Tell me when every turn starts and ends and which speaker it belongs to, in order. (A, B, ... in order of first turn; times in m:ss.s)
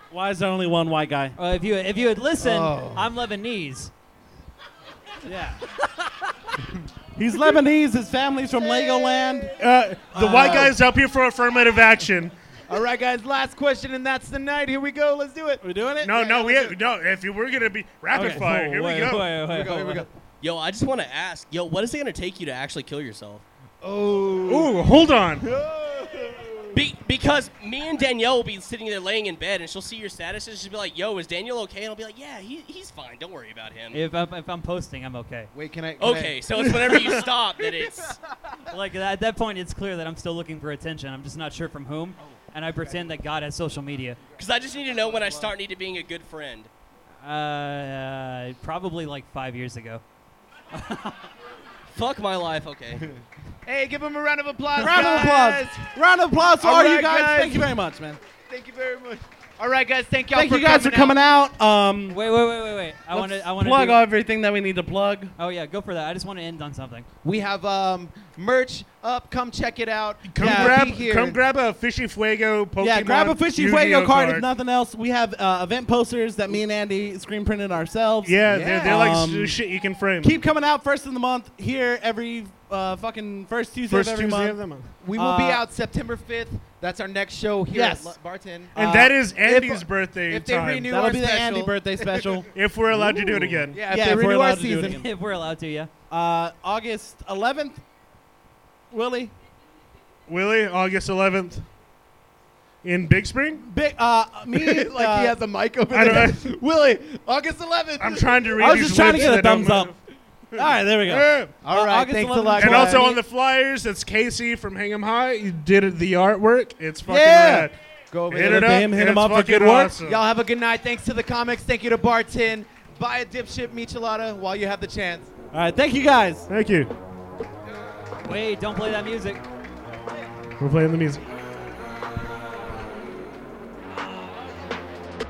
0:00.1-0:01.4 A
0:01.4-0:03.9 B
0:02.4-0:03.1 C
0:05.2-0:05.9 A
0:07.2-0:09.6 A
0:08.6-0:10.8 C
0:09.6-0:12.3 D
0:10.1-0:10.8 A
0:12.7-0:16.8 C
0:15.6-0:16.3 A
0:16.0-0:19.4 D
0:18.1-0:19.2 A
0:18.2-0:20.1 B
0:19.5-0:20.1 C
0:20.4-0:23.4 E
0:23.8-0:24.9 C
0:24.4-0:25.5 D
0:25.4-0:26.8 C
0:26.7-0:34.0 E
0:33.9-0:35.5 B
0:35.5-0:38.2 C
0:36.0-0:38.2 E
0:38.7-0:44.2 B
0:44.4-0:46.7 E
0:45.1-0:45.4 C
0:47.2-0:50.0 B
0:50.7-0:51.1 B
0:51.9-0:53.1 E
0:53.6-0:55.9 C
0:54.8-0:58.2 A
0:56.6-0:57.7 C
0:58.4-1:01.2 C
1:00.3-1:02.2 A
1:02.1-1:04.0 B
1:03.1-1:05.3 A
1:05.4-1:07.1 B
1:07.2-1:11.4 C
1:10.3-1:14.4 D
1:10.4-1:10.9 A
1:12.8-1:19.6 A
1:18.2-1:20.3 D
1:18.5-1:19.1 C
1:20.2-1:24.6 A
1:23.9-1:24.9 D
1:25.0-1:28.8 C
1:25.2-1:25.6 A
1:27.7-1:28.2 A
1:28.8-1:30.9 D
1:28.8-1:29.7 A
1:29.4-1:32.4 C
1:30.8-1:35.1 A
1:32.5-1:33.8 D
1:33.7-1:35.0 C
1:34.9-1:35.9 B
1:36.1-1:37.8 A
1:38.9-1:39.3 A
1:40.3-1:41.7 D
1:42.8-1:43.6 D
1:43.6-1:45.4 A
1:44.5-1:48.8 C
1:45.9-1:46.6 D
1:48.0-1:50.0 D
1:48.6-1:50.0 A
1:50.5-1:51.5 D
1:50.6-1:53.2 A
1:51.6-1:53.2 C
1:52.6-1:57.8 D
1:57.1-1:57.7 A
1:58.1-1:58.9 C
1:58.3-2:00.2 D
1:58.4-2:00.0 A
2:00.0-2:05.3 C
2:05.5-2:06.5 A
2:06.5-2:06.9 D
2:08.2-2:09.4 B
2:10.6-2:11.2 D